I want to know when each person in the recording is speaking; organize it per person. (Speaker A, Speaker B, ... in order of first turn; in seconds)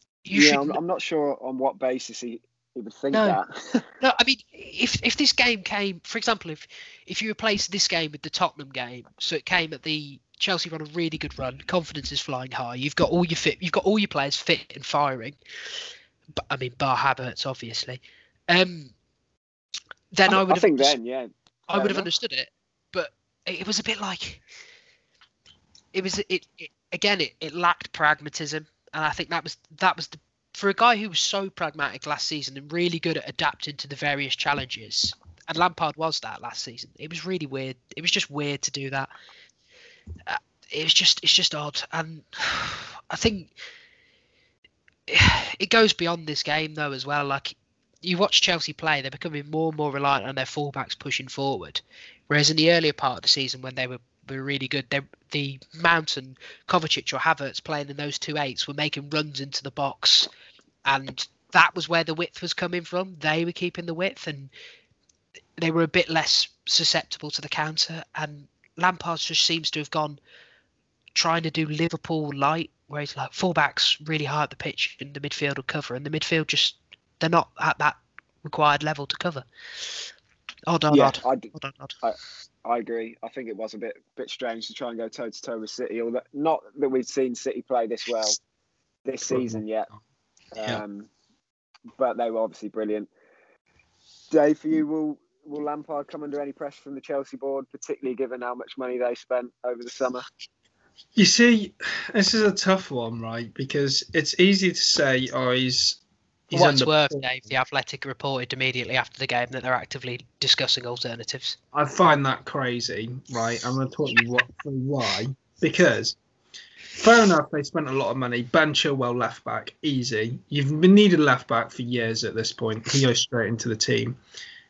Speaker A: 0.2-0.8, 3.1-3.4, 4.0-15.4, 16.4-18.9, 20.1-20.9, 21.7-24.4, 25.9-39.1, 40.3-43.5, 45.1-60.3, 60.9-64.5, 65.6-70.2, 71.1-80.0, 80.7-81.9, 106.5-111.6
Speaker B: 0.3-3.9, 20.3-22.1, 80.9-88.4, 89.0-89.9, 90.5-91.1, 92.0-93.1, 94.3-100.3
Speaker C: 89.3-89.6, 101.2-107.2, 111.7-116.2, 117.0-124.2